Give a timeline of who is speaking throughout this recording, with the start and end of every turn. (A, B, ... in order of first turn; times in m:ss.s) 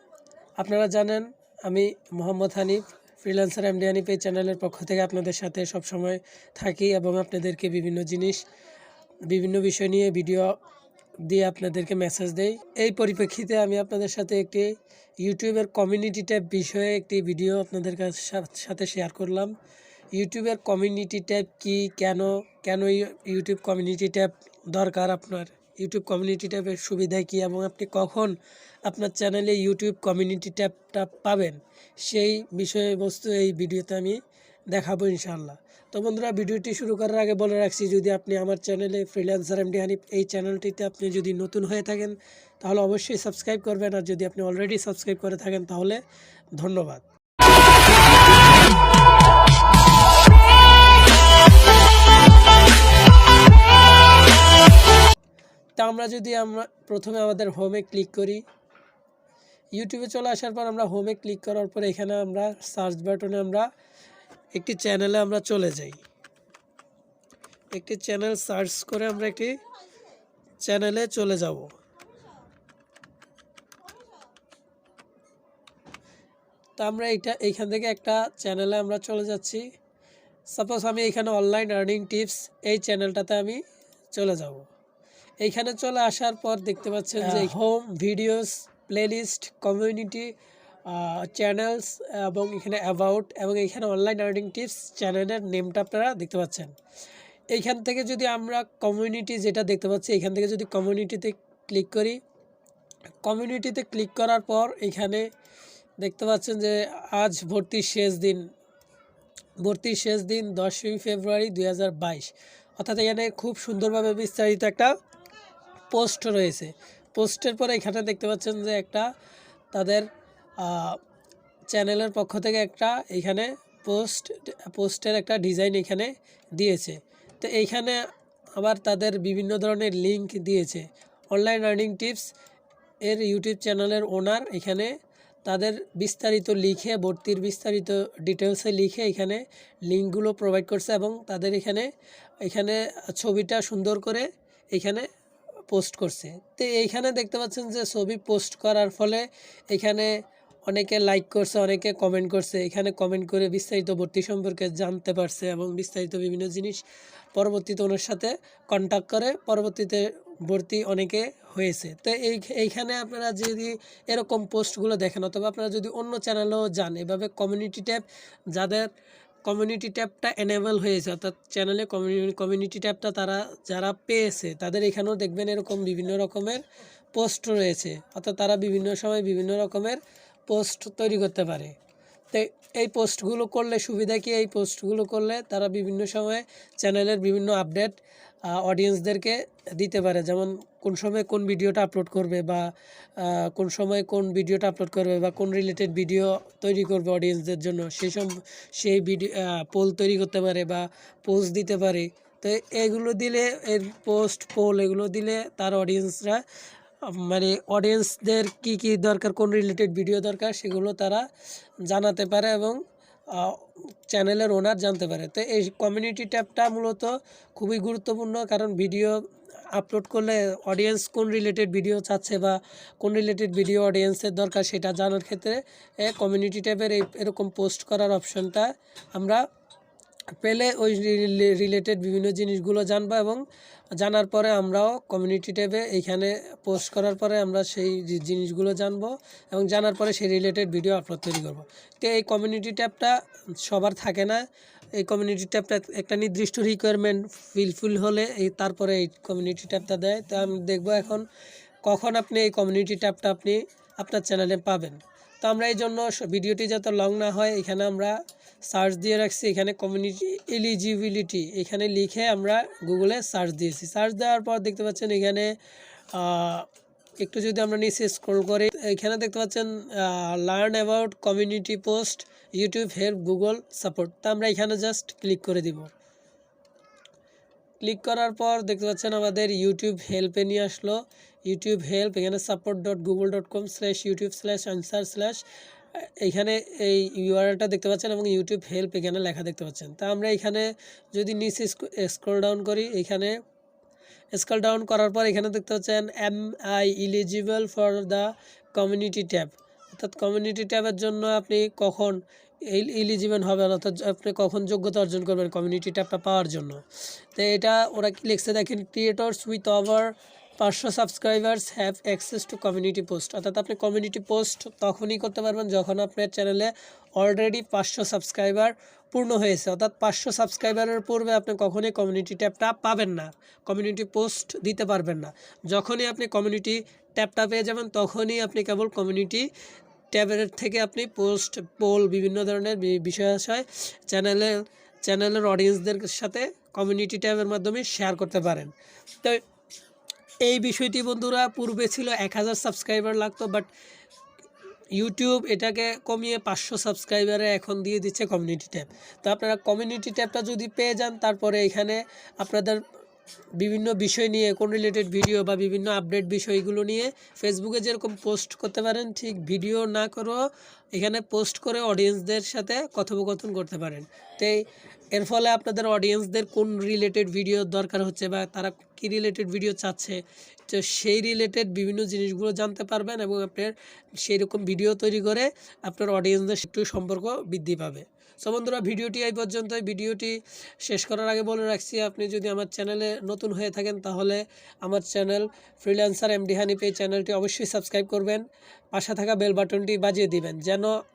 0:00.6-0:08.4 A
0:09.3-0:10.6 A
0:11.2-0:19.6 A
0:20.1-0:46.0 A
0:46.5-0:47.0 A
0:55.8-0:58.4 A
0:59.8-1:03.7 A
1:04.5-1:06.0 A
1:07.7-1:09.6 A
1:10.6-1:11.7 A
1:16.8-1:19.6 A
1:20.5-1:23.6 A
1:24.1-1:24.7 A
1:25.4-1:30.3 A
1:30.9-1:36.7 A
1:37.5-1:42.2 A
1:43.2-1:45.3 A
1:46.0-1:48.5 A
1:49.6-1:54.9 A
1:55.9-1:59.1 A
1:59.7-2:01.0 A
2:01.7-2:08.0 A
2:08.6-2:12.3 A
2:13.0-2:21.9 A
2:22.4-2:25.1 A
2:25.7-2:36.8 A
2:37.4-2:48.9 A
2:49.4-3:01.8 A
3:02.3-3:26.4 A
3:27.0-3:31.3 A
3:31.8-3:32.8 A
3:33.3-3:39.2 A
3:39.7-3:49.4 A
3:50.4-3:53.4 A
3:54.0-4:04.4 A
4:05.0-4:11.2 A
4:11.8-4:25.6 A
4:26.1-4:26.7 A
4:27.2-4:35.9 A
4:37.8-4:45.4 A
4:46.0-4:53.4 A
4:54.3-5:06.8 A
5:07.3-5:29.5 A
5:30.1-5:39.4 A
5:40.4-5:43.7 A
5:45.0-5:52.8 A
5:53.6-6:31.0 A